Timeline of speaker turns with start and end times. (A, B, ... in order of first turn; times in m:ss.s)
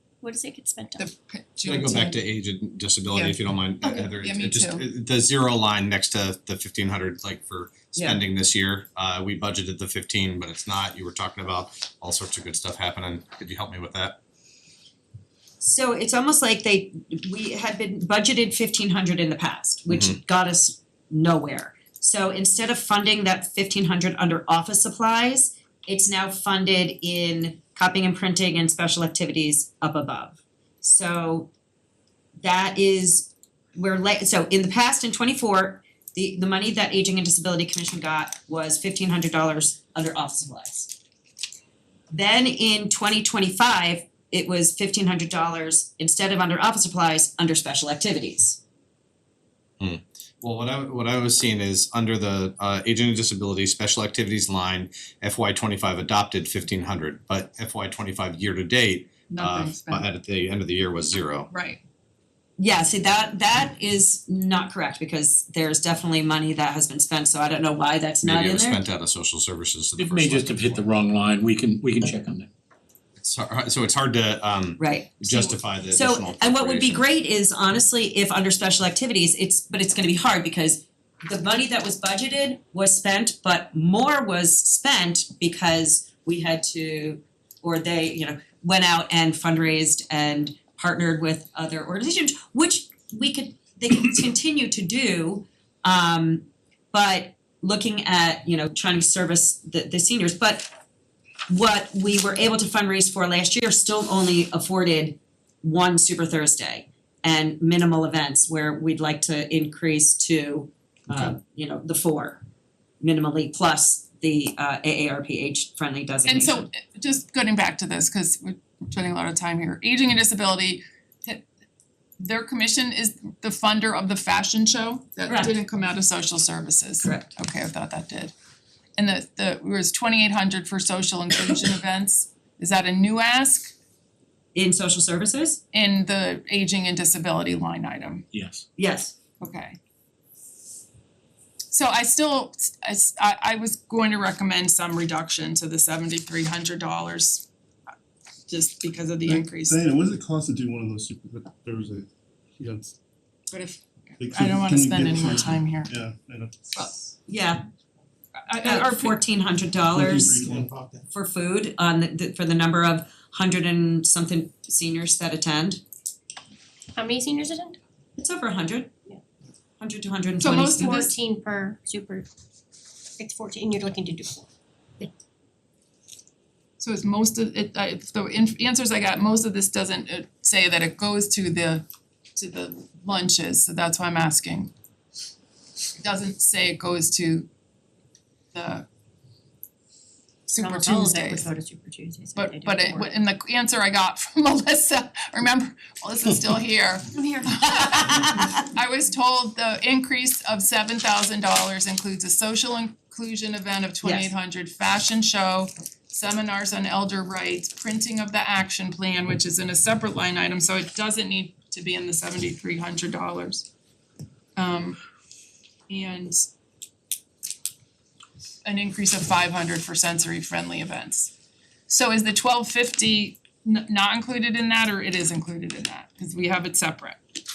0:00.2-0:01.1 A
0:01.0-0:02.2 B
0:01.7-0:14.2 C
0:03.1-0:03.4 B
0:04.1-0:04.8 B
0:08.0-0:08.3 D
0:15.6-0:31.5 D
0:19.9-0:20.2 C
0:32.4-0:41.0 D
0:42.1-0:48.6 D
0:49.8-1:01.5 C
0:59.3-1:00.1 B
1:01.5-1:01.8 B
1:02.6-1:08.8 D
1:08.2-1:10.8 C
1:10.0-1:12.5 E
1:13.2-1:17.0 C
1:14.8-1:15.3 D
1:15.3-1:15.6 B
1:15.9-1:40.7 D
1:41.5-1:52.4 D
1:53.0-1:56.7 D
1:56.2-2:01.5 B
2:02.2-2:08.3 B
2:05.3-2:05.5 D
2:07.0-2:07.3 D
2:09.0-2:13.7 B
2:14.6-2:15.6 D
2:15.7-2:18.2 B
2:18.3-2:18.6 E
2:18.8-2:19.2 D
2:19.4-2:19.8 B
2:21.7-2:27.5 B
2:28.5-2:29.8 B
2:29.2-2:33.0 F
2:33.5-2:36.0 B
2:34.2-2:36.8 F
2:37.3-2:37.6 D
2:38.5-2:39.2 B
2:38.6-2:40.5 D
2:39.9-2:41.0 F
2:41.1-2:45.8 D
2:47.0-2:47.8 A
2:48.2-2:49.0 D
2:49.8-2:50.9 D
2:50.4-2:51.2 B
2:50.6-2:52.3 A
2:53.2-2:54.5 A
2:56.8-3:04.7 B
3:06.0-3:07.5 B
3:08.5-3:08.9 B
3:10.5-3:11.5 B
3:10.6-3:13.2 A
3:12.4-3:33.7 B
3:24.0-3:24.3 D
3:34.6-3:35.0 B
3:35.9-3:36.5 B
3:38.6-3:41.3 B
3:41.9-3:47.2 B